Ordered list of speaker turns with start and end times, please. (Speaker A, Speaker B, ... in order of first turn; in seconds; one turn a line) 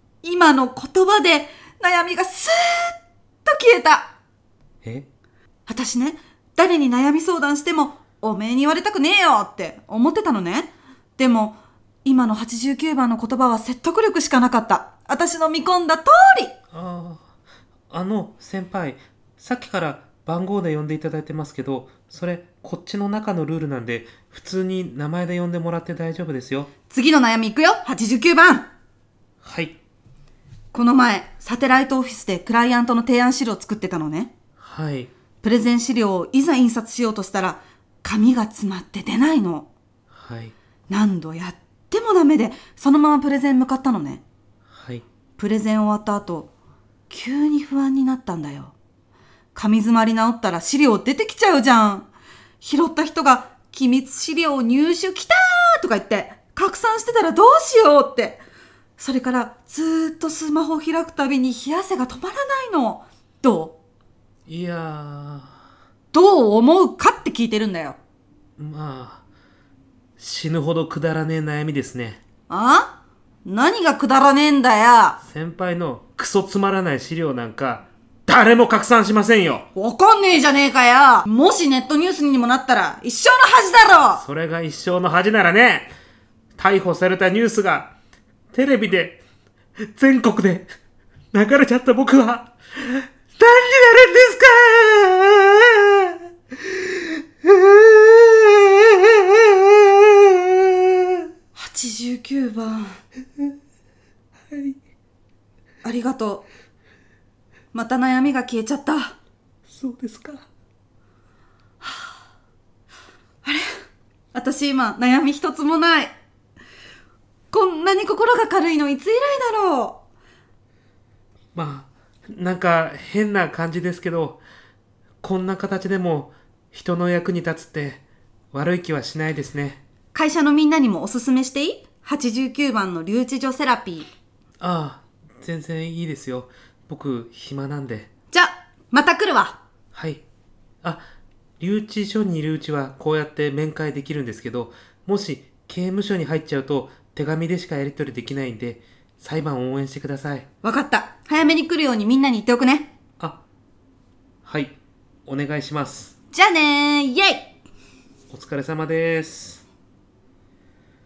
Speaker A: 0.2-4.1
Speaker A: 5.7-16.5
Speaker B: 16.7-17.3
Speaker B: 17.9-26.7
Speaker A: 26.9-28.7
Speaker B: 29.4-29.8
Speaker A: 30.7-34.3
Speaker B: 34.6-35.1
Speaker A: 35.4-39.7
Speaker B: 40.1-40.5
Speaker A: 40.9-44.2
Speaker B: 44.7-45.0
Speaker A: 45.4-46.5
Speaker A: 47.1-48.7
Speaker A: 49.5-52.1
Speaker A: 52.6-58.4
Speaker A: 59.0-63.8
Speaker B: 64.5-65.6
Speaker A: 66.1-68.0
Speaker B: 68.6-69.2
Speaker B: 70.2-72.2
Speaker A: 72.5-75.2
Speaker B: 75.2-79.7
Speaker A: 79.8-84.2
Speaker B: 84.2-85.9
Speaker B: 86.6-87.9
Speaker B: 88.5-89.2
Speaker B: 89.8-90.7
Speaker B: 91.3-101.0
Speaker A: 101.5-103.0
Speaker B: 104.5-104.8
Speaker A: 105.8-106.5
Speaker A: 107.7-109.2
Speaker B: 109.7-110.5
Speaker A: 111.8-112.1
Speaker A: 114.3-116.1
Speaker A: 117.5-120.0
Speaker B: 121.5-124.4
Speaker B: 125.2-129.8
Speaker A: 130.1-134.1
Speaker B: 134.6-138.1
Speaker A: 138.3-139.6
Speaker B: 139.9-140.2
Speaker B: 141.6-150.5
Speaker A: 150.6-152.9
Speaker B: 154.4-156.1
Speaker A: 156.3-157.5
Speaker B: 158.3-159.6